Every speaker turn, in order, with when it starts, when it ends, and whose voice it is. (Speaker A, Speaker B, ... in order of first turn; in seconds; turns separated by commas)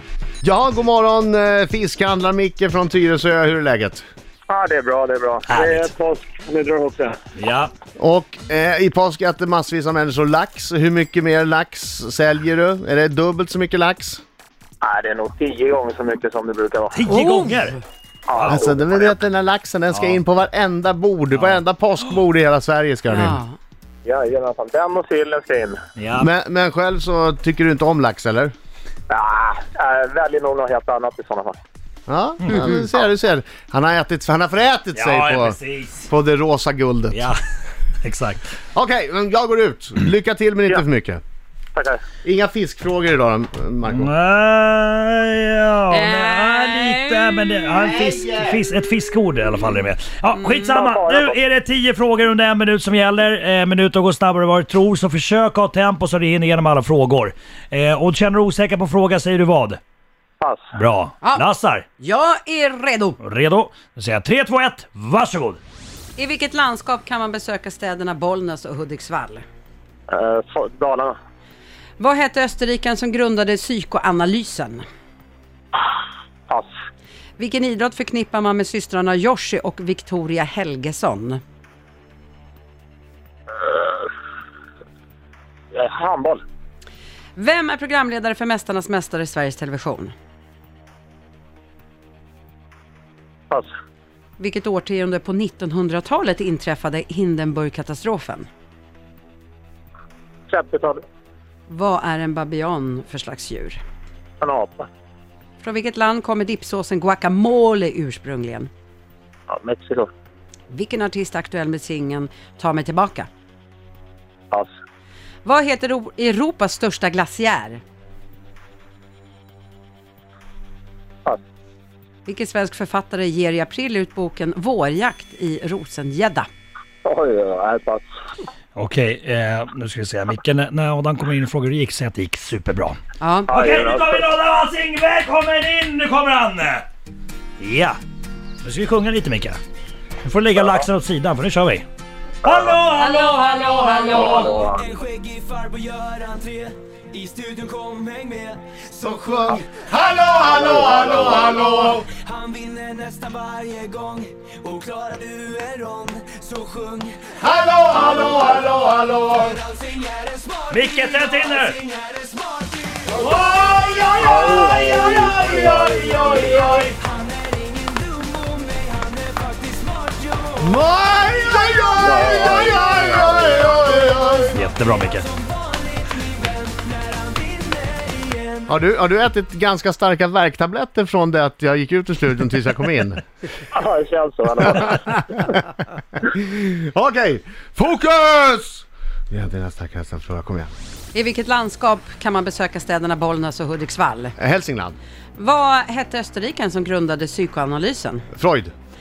Speaker A: 0.4-4.0, Speaker B: 4.5-7.2, Speaker C: 5.5-5.9, Speaker C: 7.3-7.7, Speaker A: 8.0-14.2, Speaker B: 14.8-17.1, Speaker C: 16.9-17.8, Speaker D: 17.1-17.8, Speaker B: 18.3-19.1, Speaker C: 18.3-18.7, Speaker A: 18.5-23.4, Speaker C: 19.9-20.2, Speaker C: 21.3-21.6, Speaker D: 23.1-23.6, Speaker B: 24.0-25.8, Speaker C: 26.0-26.3, Speaker A: 26.2-28.5, Speaker B: 29.1-31.6, Speaker A: 32.1-35.6, Speaker C: 32.4-32.7, Speaker D: 32.5-32.8, Speaker C: 34.9-36.1, Speaker A: 36.1-37.2, Speaker C: 37.1-37.4, Speaker C: 38.0-38.4, Speaker A: 38.7-41.2, Speaker B: 41.7-42.0, Speaker A: 42.2-44.1, Speaker C: 43.9-59.8, Speaker D: 45.9-47.5, Speaker A: 47.7-48.6, Speaker B: 50.6-51.4, Speaker B: 60.4-60.7, Speaker C: 60.7-61.8, Speaker D: 62.0-63.2, Speaker C: 63.2-65.6, Speaker D: 66.2-69.4, Speaker B: 70.1-71.2, Speaker D: 72.0-74.8, Speaker D: 77.4-81.4, Speaker B: 83.6-84.0, Speaker B: 85.7-86.4, Speaker D: 87.3-90.1, Speaker D: 94.4-98.5, Speaker B: 100.5-101.0, Speaker D: 101.7-103.8, Speaker B: 104.4-104.9, Speaker D: 105.6-108.7, Speaker B: 109.5-110.1, Speaker D: 110.7-113.3, Speaker D: 115.4-117.8, Speaker D: 122.2-126.5, Speaker B: 127.0-128.1, Speaker C: 128.7-133.0, Speaker D: 133.2-133.5, Speaker B: 133.5-134.2, Speaker C: 133.5-136.8, Speaker C: 137.6-138.0, Speaker C: 138.6-139.6, Speaker C: 140.2-141.8, Speaker B: 142.4-142.8, Speaker C: 142.4-144.6, Speaker D: 142.9-144.5, Speaker B: 144.1-144.8, Speaker E: 144.9-148.5, Speaker A: 149.0-152.1, Speaker B: 150.3-151.5, Speaker E: 152.1-157.3, Speaker A: 157.4-159.6, Speaker B: 158.0-158.5, Speaker E: 159.9-161.3, Speaker C: 160.7-161.8, Speaker E: 161.9-163.0, Speaker C: 163.2-166.9, Speaker B: 164.2-166.4, Speaker E: 167.0-170.5, Speaker A: 170.6-174.6, Speaker B: 172.0-173.6, Speaker C: 174.5-175.3, Speaker E: 175.6-178.5, Speaker A: 178.7-183.2, Speaker B: 183.7-185.6, Speaker A: 186.2-190.7, Speaker D: 191.1-194.3, Speaker A: 194.4-194.9, Speaker D: 195.3-198.3, Speaker A: 198.3-198.7